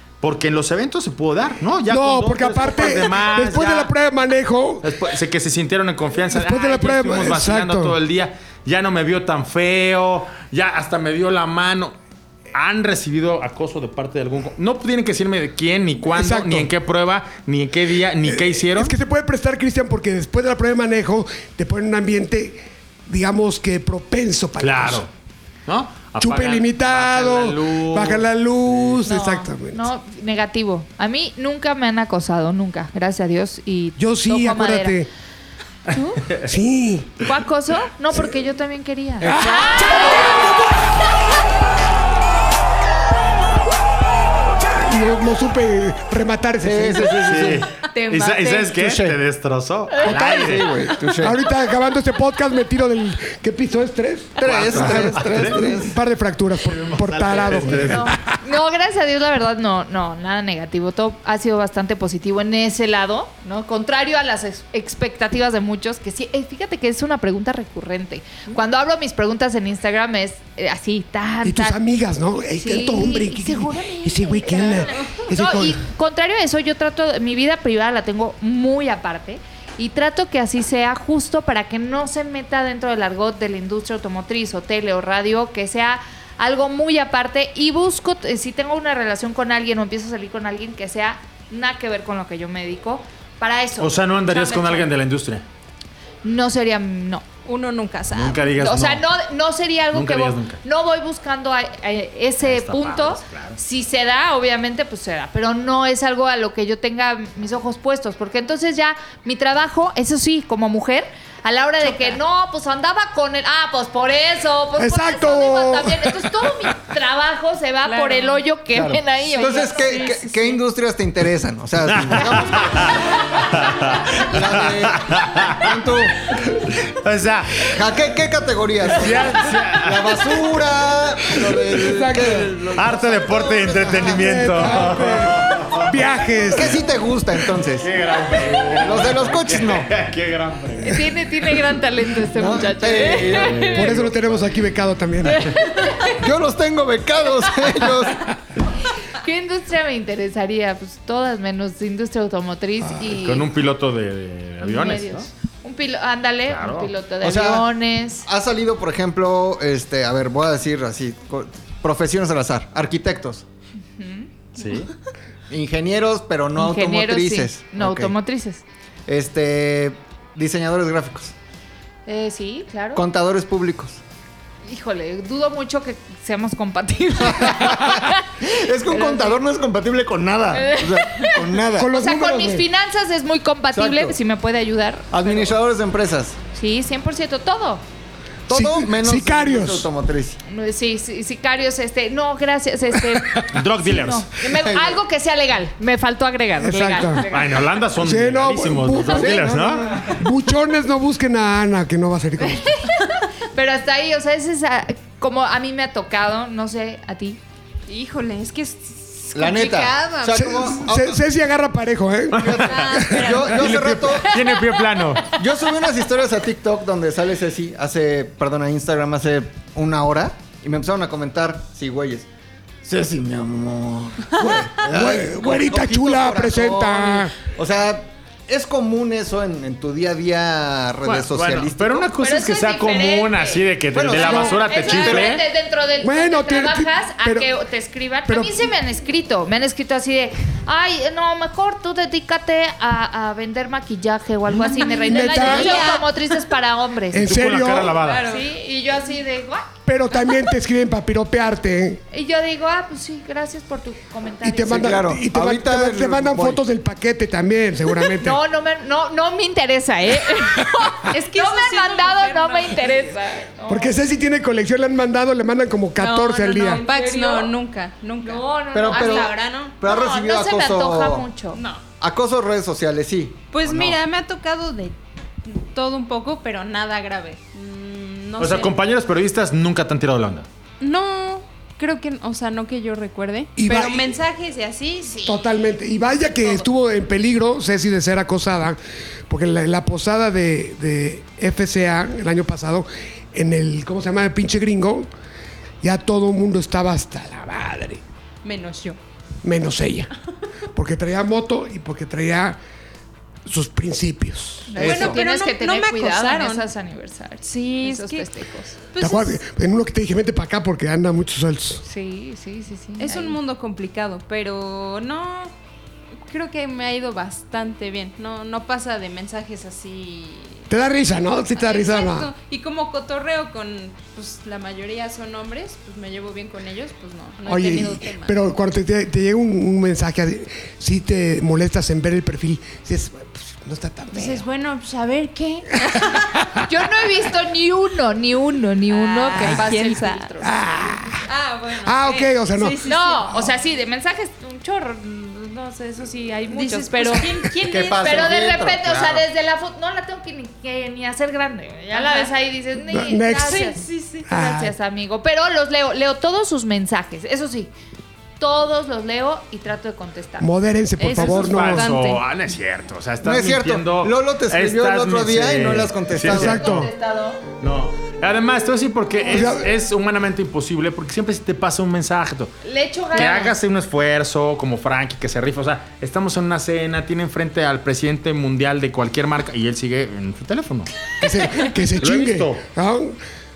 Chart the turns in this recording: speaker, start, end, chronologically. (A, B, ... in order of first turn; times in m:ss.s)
0:00.2-0:03.9 A
0:01.9-0:04.8 B
0:04.8-0:11.9 A
0:06.3-0:08.0 B
0:12.5-0:19.0 A
0:16.1-0:16.7 B
0:18.2-0:25.0 B
0:24.6-0:25.1 A
0:25.6-0:28.9 A
0:26.2-0:29.9 B
0:29.0-0:35.0 C
0:34.0-0:35.1 B
0:35.9-0:36.2 D
0:36.4-0:37.2 B
0:37.2-0:40.4 C
0:39.2-0:40.5 B
0:44.8-0:47.2 B
0:46.6-0:47.7 E
0:47.2-0:50.7 A
0:47.9-0:48.8 C
0:48.7-0:49.2 E
0:50.0-0:51.4 E
0:51.2-0:58.4 B
0:54.4-0:56.0 E
0:54.4-0:55.7 A
0:56.6-0:58.2 A
0:57.9-1:11.8 C
1:11.4-1:15.8 B
1:12.6-1:34.9 C
1:33.8-1:35.4 A
1:36.2-1:37.2 C
1:37.4-1:38.4 D
1:38.1-1:39.0 A
1:38.6-2:00.4 C
1:39.9-1:40.6 A
1:42.4-1:43.6 A
1:51.8-1:52.2 D
1:54.8-1:56.5 B
1:57.8-1:58.4 D
1:58.7-2:03.1 E
1:59.5-2:00.3 D
2:01.9-2:08.0 A
2:04.0-2:06.2 E
2:07.6-2:14.9 E
2:08.9-2:10.5 A
2:11.7-2:12.6 B
2:12.7-2:15.9 A
2:13.9-2:16.8 B
2:16.5-2:17.9 E
2:17.8-2:21.1 A
2:18.5-2:19.9 E
2:20.8-2:23.8 C
2:22.3-2:24.1 E
2:23.2-2:24.5 A
2:23.7-2:25.5 B
2:25.3-2:26.1 C
2:26.1-2:28.3 E
2:29.1-2:33.5 C
2:33.0-2:35.3 A
2:34.6-2:38.3 C
2:36.5-2:36.9 A
2:37.2-2:37.7 E
2:38.2-2:43.4 E
2:44.0-2:44.3 C
2:44.5-2:44.9 A
2:45.5-2:48.1 E
2:46.6-2:48.6 C
2:49.1-2:51.3 E
2:52.1-2:53.0 C
2:52.9-2:54.0 E
2:54.6-2:59.4 C
2:57.2-3:01.9 E
3:00.5-3:05.5 C
3:01.8-3:02.7 B
3:03.7-3:04.2 E
3:05.1-3:06.4 E
3:06.5-3:07.8 C
3:08.5-3:10.4 E
3:08.5-3:09.9 B
3:10.5-3:17.6 C
3:13.5-3:14.3 A
3:14.4-3:15.0 E
3:16.6-3:17.3 B
3:17.3-3:20.1 A
3:18.0-3:22.8 B
3:19.1-3:20.1 E
3:22.6-3:27.4 C
3:27.9-3:30.6 D
3:29.3-3:31.2 E
3:30.4-3:33.3 B
3:32.3-3:32.9 A
3:32.4-3:34.4 E
3:32.6-3:33.7 D
3:33.5-3:35.3 A
3:35.3-3:42.3 E
3:42.8-3:52.1 E
3:44.4-3:47.3 B
3:51.0-3:55.4 A
3:52.2-4:07.3 C
3:53.9-3:55.4 E
3:56.0-3:57.5 B
3:58.3-3:58.7 B
4:04.5-4:06.1 D
4:05.0-4:05.9 B
4:07.1-4:08.0 B
4:07.2-4:08.2 A
4:08.0-4:08.5 D
4:08.2-4:09.7 C
4:09.8-4:12.0 B
4:12.1-4:15.0 C
4:14.4-4:18.4 B
4:14.6-4:16.6 E
4:18.2-4:24.0 C
4:20.9-4:23.0 D
4:23.7-4:26.8 B
4:26.0-4:27.5 C
4:26.7-4:29.7 D
4:28.2-4:31.6 C
4:28.7-4:31.3 E
4:31.5-4:31.8 D
4:32.0-4:34.0 E
4:33.5-4:38.7 D
4:38.4-4:40.5 A
4:40.8-4:45.3 D
4:43.6-4:44.1 B
4:45.1-4:45.4 C
4:45.2-4:48.8 B
4:49.3-4:55.1 B
4:55.8-4:58.0 B
4:58.4-4:59.0 D
4:59.4-5:00.1 B
5:00.7-5:02.6 B
5:03.4-5:04.8 B
5:04.7-5:08.8 C
5:04.8-5:05.2 E
5:04.8-5:06.6 D
5:07.4-5:08.3 D
5:08.9-5:09.4 D
5:09.0-5:11.8 B
5:11.8-5:13.4 C
5:13.0-5:15.5 D
5:16.2-5:20.7 D
5:20.7-5:22.3 B
5:21.6-5:28.3 D
5:27.4-5:34.4 B
5:34.1-5:36.2 D
5:35.9-5:36.6 B
5:36.6-5:41.2 C
5:38.9-5:40.3 D
5:40.4-5:41.2 B
5:41.2-5:43.3 D
5:41.8-5:42.8 B
5:42.8-5:47.4 C
5:46.5-5:48.2 D
5:47.6-5:49.2 E
5:47.9-5:57.7 C
5:51.9-5:52.3 D
5:52.9-5:53.6 B
5:53.5-5:54.3 D
5:54.3-5:54.7 B
5:58.4-6:00.5 C
6:00.4-6:01.8 B
6:01.0-6:02.2 D
6:01.1-6:06.5 A
6:03.2-6:06.8 E
6:06.2-6:06.9 B
6:06.3-6:07.4 C
6:07.6-6:12.5 A
6:09.2-6:09.7 B
6:12.6-6:13.5 C
6:13.1-6:20.9 A
6:21.2-6:23.2 B
6:22.0-6:22.6 A